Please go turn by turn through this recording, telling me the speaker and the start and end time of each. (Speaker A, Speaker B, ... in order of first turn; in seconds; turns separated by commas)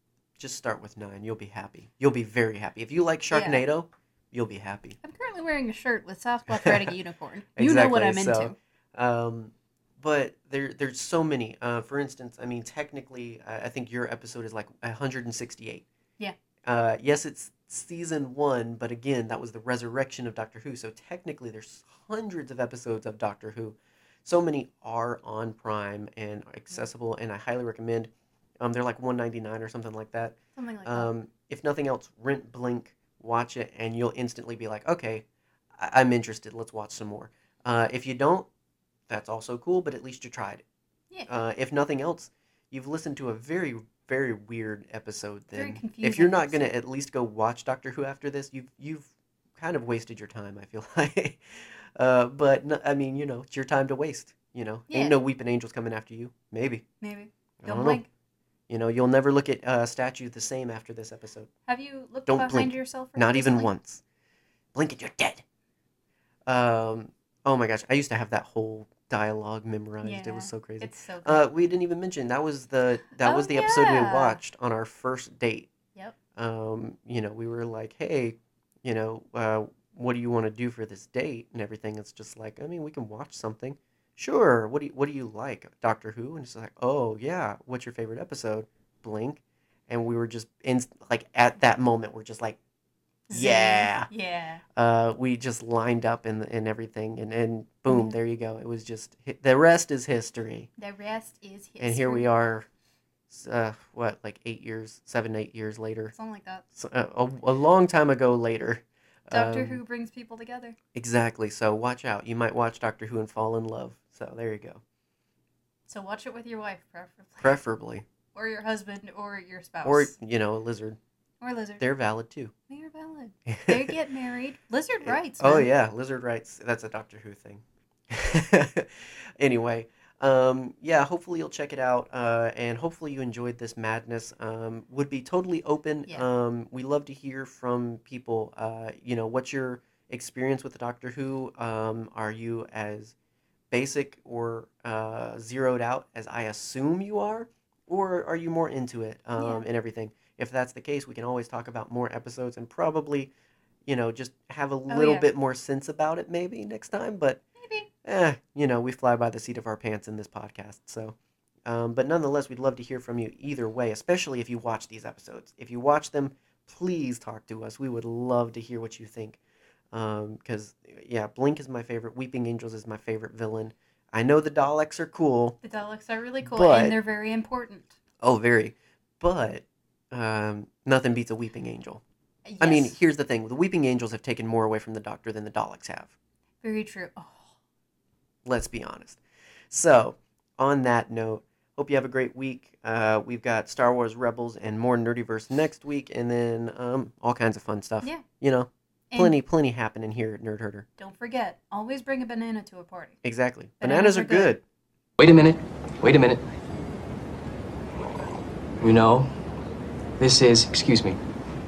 Speaker A: 0.4-5.0, Speaker B: 3.3-3.6, Speaker B: 5.0-8.6, Speaker A: 6.5-6.9, Speaker A: 7.5-15.8, Speaker A: 16.6-38.5, Speaker B: 30.6-31.1, Speaker A: 39.1-40.6, Speaker A: 41.3-56.8, Speaker B: 45.5-46.7, Speaker B: 54.9-55.2, Speaker B: 57.0-58.1, Speaker A: 57.6-58.0, Speaker A: 58.7-61.5, Speaker B: 61.7-63.7, Speaker A: 62.3-64.0, Speaker A: 64.7-65.4, Speaker A: 66.5-75.7, Speaker B: 70.0-71.5, Speaker B: 73.1-74.4, Speaker A: 76.3-92.6, Speaker B: 93.3-94.6, Speaker A: 93.3-94.1, Speaker A: 94.7-100.7, Speaker B: 97.9-98.1, Speaker B: 100.8-102.3, Speaker A: 101.8-102.7, Speaker A: 103.3-106.1, Speaker B: 106.1-106.6, Speaker A: 106.7-109.8, Speaker B: 109.3-110.8, Speaker A: 110.9-114.8, Speaker B: 115.8-117.6, Speaker A: 117.4-118.0, Speaker B: 118.3-120.1, Speaker A: 119.8-121.0, Speaker B: 121.4-121.8, Speaker A: 121.8-122.5, Speaker B: 122.7-125.7, Speaker A: 123.5-124.0, Speaker A: 125.0-143.1, Speaker A: 143.7-153.3, Speaker B: 149.4-149.7, Speaker A: 153.8-157.4, Speaker B: 154.9-155.3, Speaker B: 157.6-157.9, Speaker A: 158.0-169.4, Speaker A: 169.9-175.6, Speaker B: 175.6-177.9, Speaker A: 176.4-176.9, Speaker A: 178.2-182.0, Speaker B: 182.4-182.9, Speaker A: 182.6-186.1, Speaker B: 186.6-187.6, Speaker A: 188.4-189.2, Speaker A: 189.7-200.9, Speaker B: 199.1-199.4, Speaker B: 201.0-203.2, Speaker A: 203.2-204.6, Speaker B: 203.8-204.6, Speaker C: 205.2-206.4, Speaker C: 208.8-209.3, Speaker C: 210.2-211.2